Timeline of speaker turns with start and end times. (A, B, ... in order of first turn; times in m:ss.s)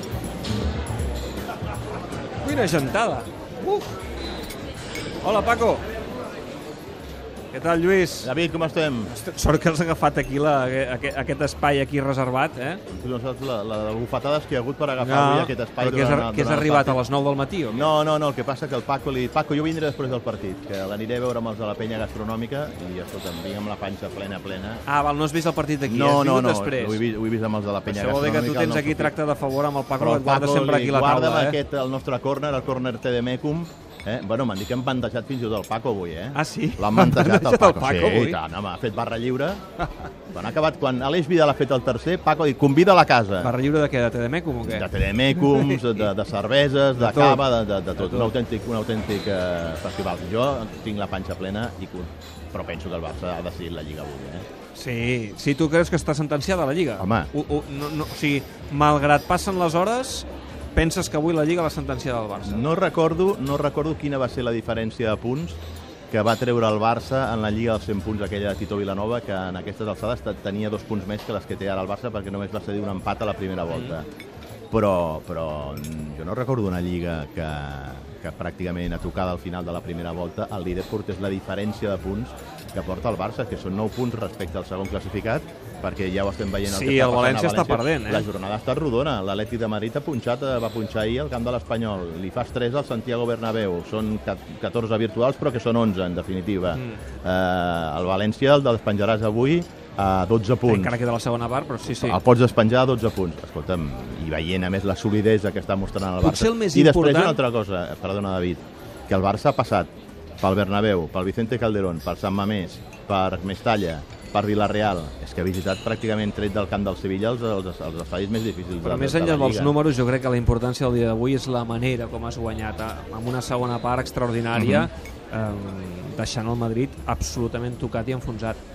0:02.4-0:04.0 A
0:05.2-0:05.8 A
0:07.5-0:08.3 A
0:08.2-0:09.1 B
0:09.1-0:12.8 A
0:12.9-0:17.0 B
0:15.0-0:17.9 A
0:17.7-0:24.8 B
0:24.8-0:27.0 A
0:25.9-0:29.1 B
0:27.8-0:31.6 A
0:30.0-0:39.6 B
0:36.3-0:38.4 A
0:40.3-0:43.5 B
0:43.4-0:46.1 A
0:44.6-0:54.5 B
0:47.0-0:48.3 A
0:54.7-1:02.6 A
0:57.0-0:57.3 B
1:02.4-1:14.0 B
1:14.7-1:41.0 B
1:26.6-1:28.3 A
1:36.7-1:37.0 A
1:40.6-1:42.2 A
1:41.8-1:49.9 B
1:46.2-1:47.4 A
1:50.4-1:59.8 B
1:58.8-2:08.6 A
2:04.5-2:04.9 B